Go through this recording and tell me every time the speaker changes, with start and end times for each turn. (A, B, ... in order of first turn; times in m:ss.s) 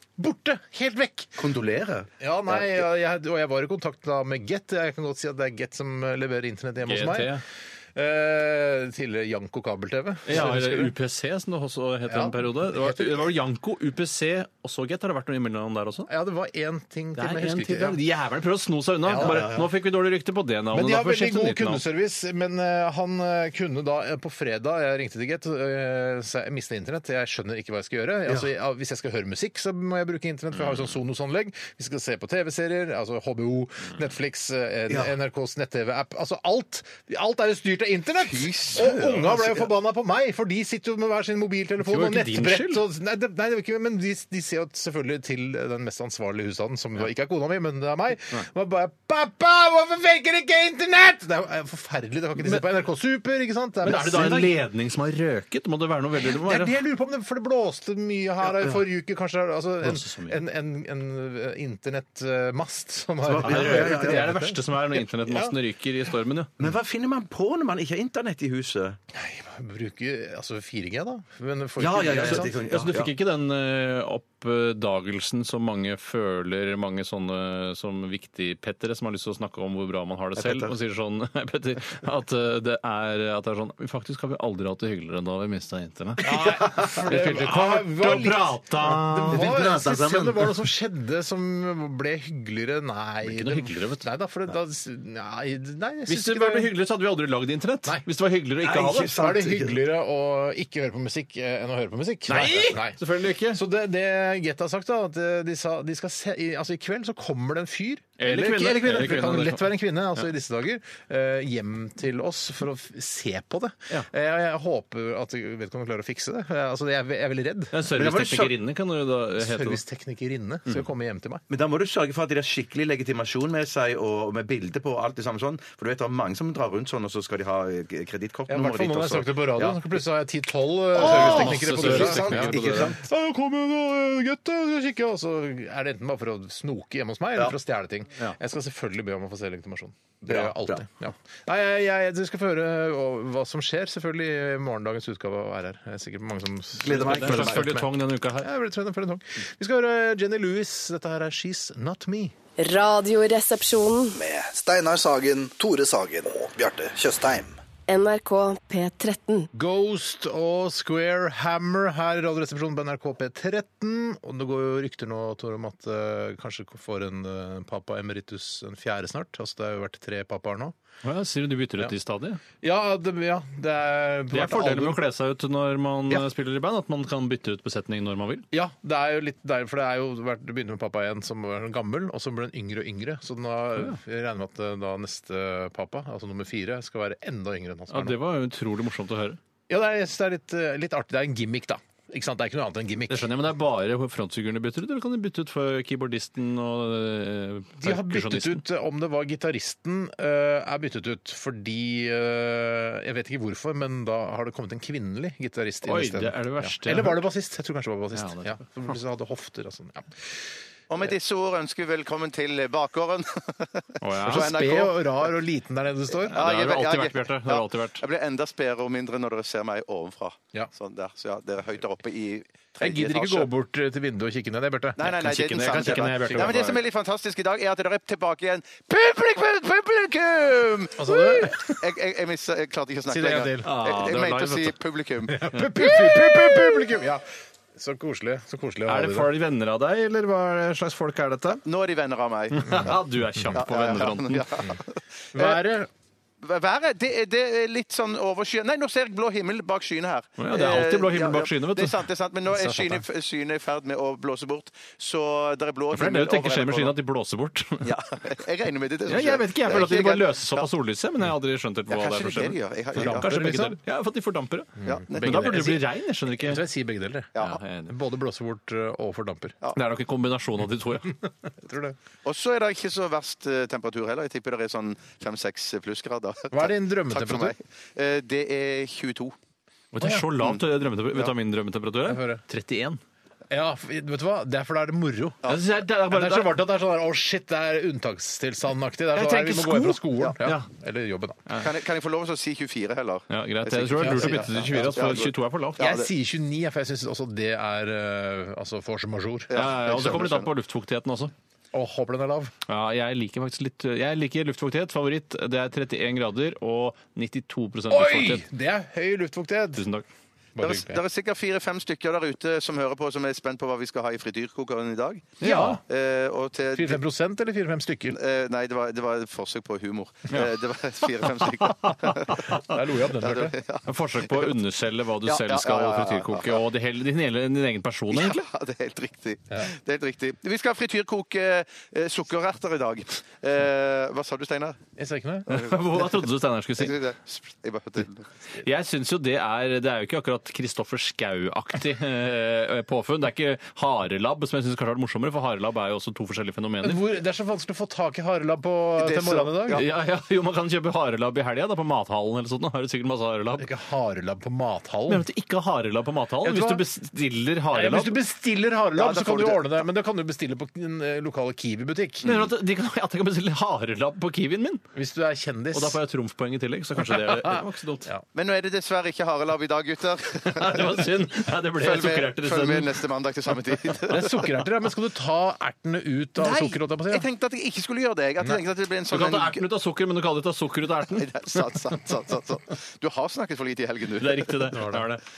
0:00.2-0:01.4 A
0:01.4-0:02.8 B
0:02.2-0:07.4 A
0:06.8-0:07.4 C
0:07.9-0:10.9 A
0:10.2-0:16.1 C
0:12.1-0:13.3 A
0:16.1-0:18.0 A
0:17.2-0:21.8 C
0:19.0-0:19.5 A
0:19.2-0:19.7 B
0:20.7-0:54.6 A
0:34.9-0:35.1 B
0:38.2-0:39.7 B
0:41.8-0:42.8 C
0:52.4-0:52.6 C
0:53.8-0:56.8 C
0:56.2-1:05.6 A
0:59.8-1:00.4 C
1:03.2-1:04.5 B
1:03.4-1:06.6 C
1:06.6-1:09.0 B
1:09.1-1:12.5 A
1:11.8-1:13.1 B
1:12.2-1:29.6 C
1:20.4-1:20.7 B
1:26.2-1:36.7 A
1:26.3-1:27.1 B
1:29.3-1:30.6 B
1:33.2-1:34.0 C
1:36.1-1:39.1 C
1:38.6-1:39.8 B
1:39.0-1:57.7 A
1:42.3-1:43.6 C
1:48.2-1:50.2 C
1:57.7-1:59.8 C
1:57.9-1:58.6 B
1:59.4-2:01.4 A
2:01.5-2:10.0 B
2:08.5-2:32.3 A
2:10.9-2:13.0 B
2:11.0-2:13.0 C
2:20.2-2:20.8 B
2:26.8-2:27.7 B
2:26.9-2:28.5 C
2:32.6-2:34.2 D
2:34.1-2:37.6 E
2:37.9-2:39.5 D
2:39.5-2:50.7 A
2:51.0-2:52.4 C
2:52.6-2:55.0 A
2:54.3-2:58.4 C
2:58.5-3:08.2 A
3:07.9-3:09.4 C
3:09.7-3:13.3 A
3:13.1-3:18.6 C
3:17.8-3:30.4 A
3:25.8-3:27.2 C
3:28.1-3:29.0 C
3:30.9-3:35.3 B
3:34.0-3:34.6 C
3:34.2-3:36.4 A
3:36.2-3:43.5 B
3:36.3-3:38.0 C
3:42.8-3:45.1 A
3:45.0-3:56.4 B
3:45.0-3:46.8 C
3:45.9-3:46.6 A
3:51.0-3:51.7 A
3:53.1-3:53.7 A
3:53.6-3:54.7 C
3:55.3-3:57.2 A
3:55.6-3:56.2 C
3:57.8-3:59.3 A
3:58.8-4:01.6 C
4:01.6-4:02.9 B
4:02.5-4:04.5 C
4:03.5-4:05.7 B
4:05.3-4:05.9 A
4:06.4-4:17.0 B
4:10.4-4:12.0 C
4:12.6-4:12.9 A
4:15.9-4:17.9 C
4:17.8-4:20.7 B
4:19.1-4:26.6 C
4:21.9-4:23.4 B
4:23.0-4:23.8 A
4:24.8-4:27.3 A
4:24.8-4:25.8 B
4:27.3-4:27.6 B
4:27.4-4:28.0 C
4:27.9-4:29.6 A
4:29.7-4:31.2 C
4:31.5-4:32.0 A
4:32.2-4:39.4 B
4:36.5-4:37.6 A
4:39.9-4:43.0 C
4:40.0-4:40.3 A
4:42.0-4:42.4 A
4:43.5-4:51.4 A
4:45.4-4:46.6 C
4:49.1-4:50.7 C
4:51.6-4:56.1 B
4:53.3-4:55.9 C
4:54.0-4:59.5 A
4:59.5-5:00.5 B
4:59.5-5:01.3 C
5:01.7-5:02.5 A
5:02.7-5:08.4 C
5:07.9-5:09.8 A
5:09.8-5:10.0 C
5:10.5-5:11.0 A
5:10.6-5:17.0 B
5:15.4-5:15.8 C
5:15.4-5:15.8 A
5:16.7-5:18.2 A
5:18.1-5:22.5 B
5:21.8-5:22.8 C
5:22.5-5:23.6 A
5:23.2-5:24.5 B
5:23.8-5:28.4 C
5:25.2-5:26.6 B
5:28.1-5:34.8 B
5:35.0-5:35.5 A
5:35.5-5:37.0 C
5:35.5-5:36.2 B
5:36.8-5:38.3 B
5:38.6-5:47.0 C
5:46.8-5:49.8 A
5:49.0-5:49.8 B
5:49.7-5:53.7 C
5:53.6-5:55.2 A
5:55.1-5:58.2 C
5:56.4-5:56.8 A
5:57.7-6:02.5 A
5:58.9-5:59.8 B
6:02.2-6:04.8 C
6:04.9-6:06.0 A
6:05.7-6:08.1 C
6:07.0-6:08.2 A
6:08.3-6:11.1 B
6:10.4-6:13.0 C
6:11.7-6:14.5 B
6:14.1-6:17.2 A
6:16.4-6:19.6 B
6:19.1-6:21.3 C
6:21.1-6:24.7 B
6:24.2-6:25.2 C